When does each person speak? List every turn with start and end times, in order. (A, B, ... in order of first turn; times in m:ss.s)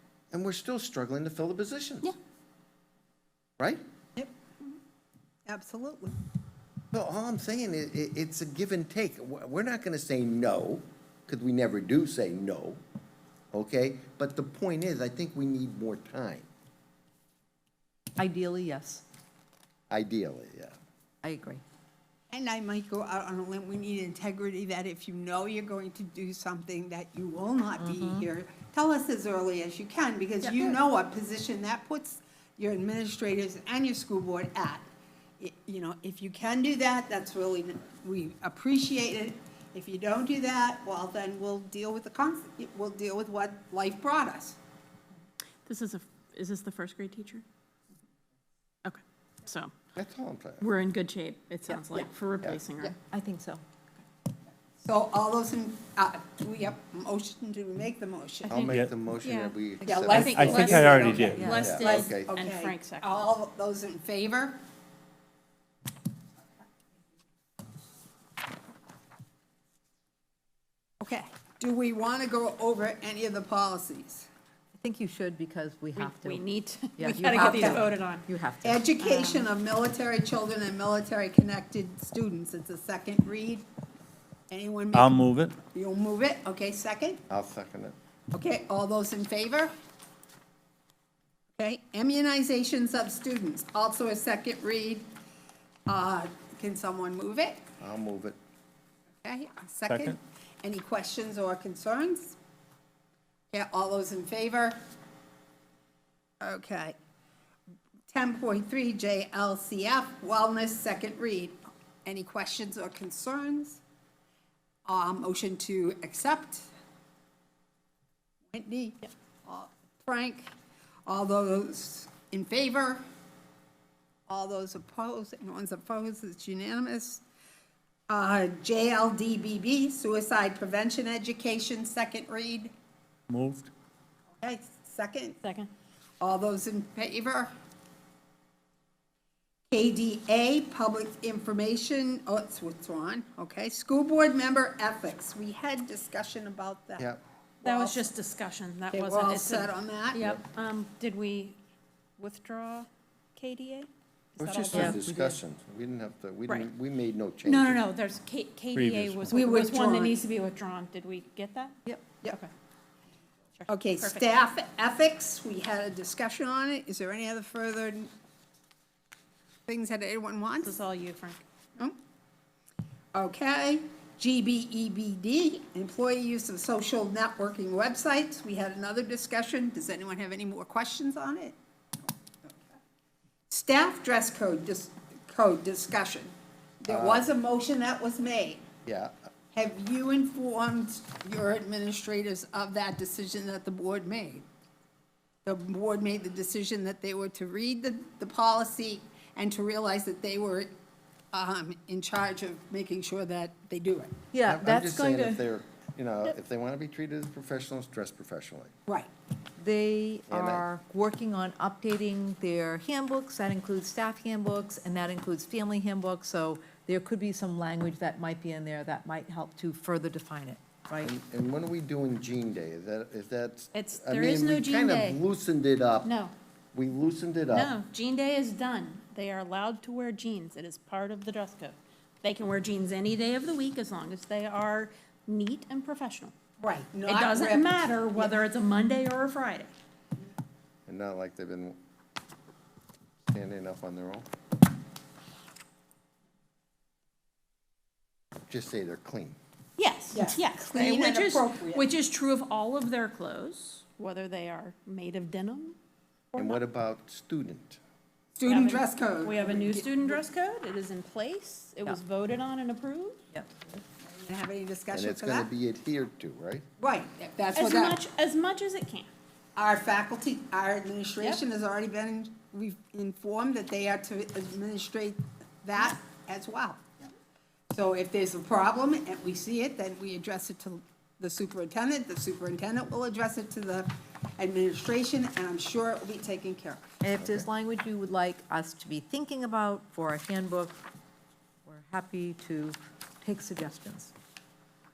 0:00.3-0:02.1 A
0:05.4-0:06.2 B
0:06.9-0:12.8 A
0:13.5-0:16.5 A
0:18.2-0:19.0 C
0:19.9-0:20.8 A
0:21.2-0:21.6 C
0:22.3-0:34.8 B
0:27.8-0:28.3 C
0:30.4-0:30.8 D
0:35.4-0:44.6 B
0:45.6-0:47.4 D
0:48.8-0:49.7 D
0:50.0-0:50.6 A
0:50.6-0:53.0 D
0:53.0-0:53.6 C
0:54.8-0:58.6 B
0:58.5-1:00.6 A
0:59.2-0:59.6 D
0:59.8-1:02.0 C
0:59.9-1:04.6 B
1:00.1-1:03.3 D
1:00.3-1:01.4 E
1:01.6-1:02.3 A
1:11.0-1:14.3 B
1:14.8-1:18.8 C
1:16.0-1:18.2 D
1:17.3-1:17.9 B
1:18.6-1:23.6 B
1:19.0-1:19.5 D
1:24.5-1:27.2 B
1:24.9-1:25.5 E
1:27.3-1:28.0 A
1:28.3-1:29.7 B
1:31.6-1:35.1 B
1:35.9-1:37.6 B
1:37.8-1:38.4 A
1:39.2-1:42.4 B
1:39.9-1:40.2 E
1:43.5-1:44.8 B
1:46.4-1:47.0 B
1:48.1-1:53.8 B
1:54.8-1:56.7 B
1:58.5-2:00.5 B
2:01.0-2:03.0 B
2:04.3-2:07.2 B
2:08.1-2:12.7 B
2:13.3-2:13.7 E
2:14.4-2:15.4 B
2:15.4-2:15.7 D
2:16.2-2:17.5 B
2:19.7-2:27.0 B
2:27.6-2:28.1 B
2:27.6-2:31.6 D
2:28.9-2:30.3 B
2:32.2-2:35.0 D
2:34.5-2:37.8 A
2:34.7-2:35.4 C
2:37.4-2:42.5 D
2:38.7-2:39.4 E
2:39.3-2:40.2 B
2:43.6-2:44.3 D
2:43.7-2:48.1 B
2:49.7-2:50.8 B
2:50.6-2:51.4 D
2:53.1-3:01.6 B
3:03.5-3:08.6 B
3:06.9-3:07.3 A
3:08.8-3:09.1 A
3:09.5-3:14.4 B
3:15.4-3:20.7 B
3:21.3-3:24.2 B
3:24.3-3:25.4 C
3:24.5-3:28.7 A
3:29.6-3:41.1 C
3:30.3-3:30.6 A
3:41.0-3:46.1 A
3:43.7-3:45.2 D
3:46.0-3:46.3 D
3:46.7-3:47.7 A
3:47.5-3:56.3 D
3:56.6-3:58.4 B
3:57.1-3:59.7 D
4:00.9-4:01.8 A
4:03.3-4:04.3 A
4:08.5-4:09.4 A
4:09.8-4:15.8 D
4:10.1-4:11.9 B
4:16.3-4:16.6 D
4:16.4-4:17.8 A
4:18.3-4:20.2 B
4:18.4-4:23.2 D
4:24.2-4:25.5 B
4:24.9-4:26.6 A
4:26.8-4:28.0 B
4:27.5-4:29.1 D
4:29.6-4:36.8 B
4:37.7-4:46.9 B
4:47.0-4:50.8 C
4:47.2-4:47.4 A
4:51.6-4:54.1 C